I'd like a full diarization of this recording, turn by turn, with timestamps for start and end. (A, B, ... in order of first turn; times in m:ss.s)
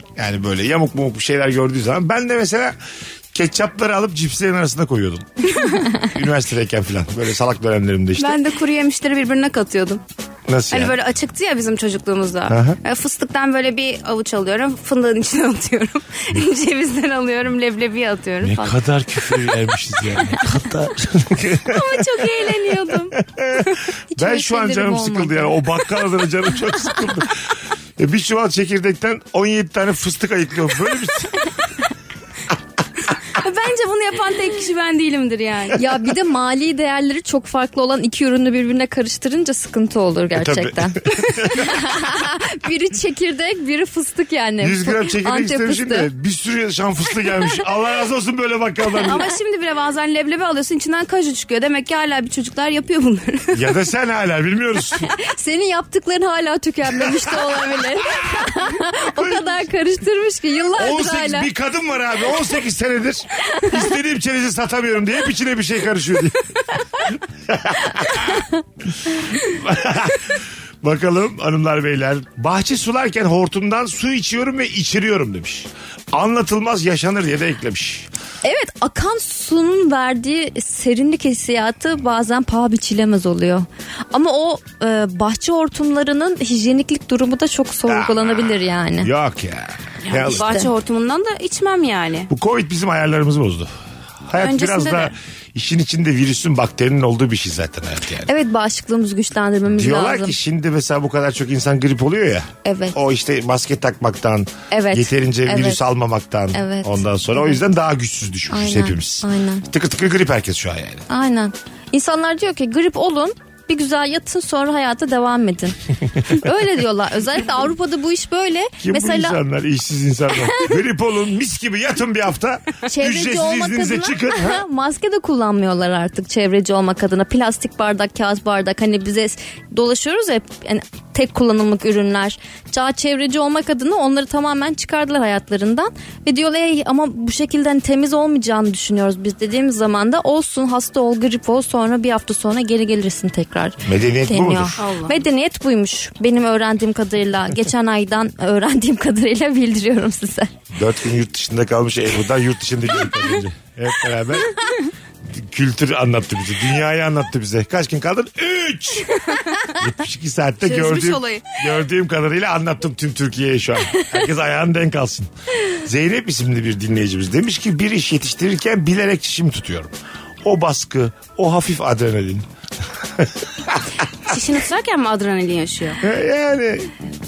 0:00.2-0:02.8 A
0:03.3-0:05.3 A
0:05.6-0:05.9 B
0:06.0-0:08.4 A
0:08.2-0:10.0 B
0:10.5-0:11.0 A
0:10.7-0:18.8 B
0:12.5-0:12.8 A
0:18.4-0:31.5 A
0:21.6-0:23.9 B
0:24.1-0:25.7 C
0:33.3-0:35.8 B
0:35.8-0:46.1 C
0:40.4-0:41.9 A
0:44.6-0:49.3 A
0:49.0-0:53.8 B
0:53.5-0:55.1 A
0:55.0-1:01.5 C
0:56.9-0:59.6 A
1:00.8-1:08.5 A
1:03.5-1:03.8 C
1:08.2-1:08.6 C
1:09.0-1:18.1 A
1:18.4-1:29.1 C
1:27.9-1:30.6 A
1:30.0-1:32.3 B
1:30.3-1:30.7 C
1:32.3-1:33.7 A
1:34.3-1:38.3 A
1:34.4-1:35.1 B
1:38.3-1:40.4 C
1:39.7-1:51.0 A
1:42.6-1:43.0 C
1:44.7-1:45.8 C
1:46.5-1:47.6 C
1:48.5-1:49.7 C
1:51.1-1:59.4 C
1:58.8-2:04.6 A
2:02.9-2:30.5 C
2:23.8-2:24.8 A
2:24.8-2:25.2 B
2:30.8-2:34.6 A
2:35.3-2:39.1 A
2:39.3-2:39.6 B
2:39.8-2:52.5 A
2:40.6-2:41.6 B
2:53.2-2:53.9 A
2:54.3-2:56.0 B
2:56.0-2:56.9 A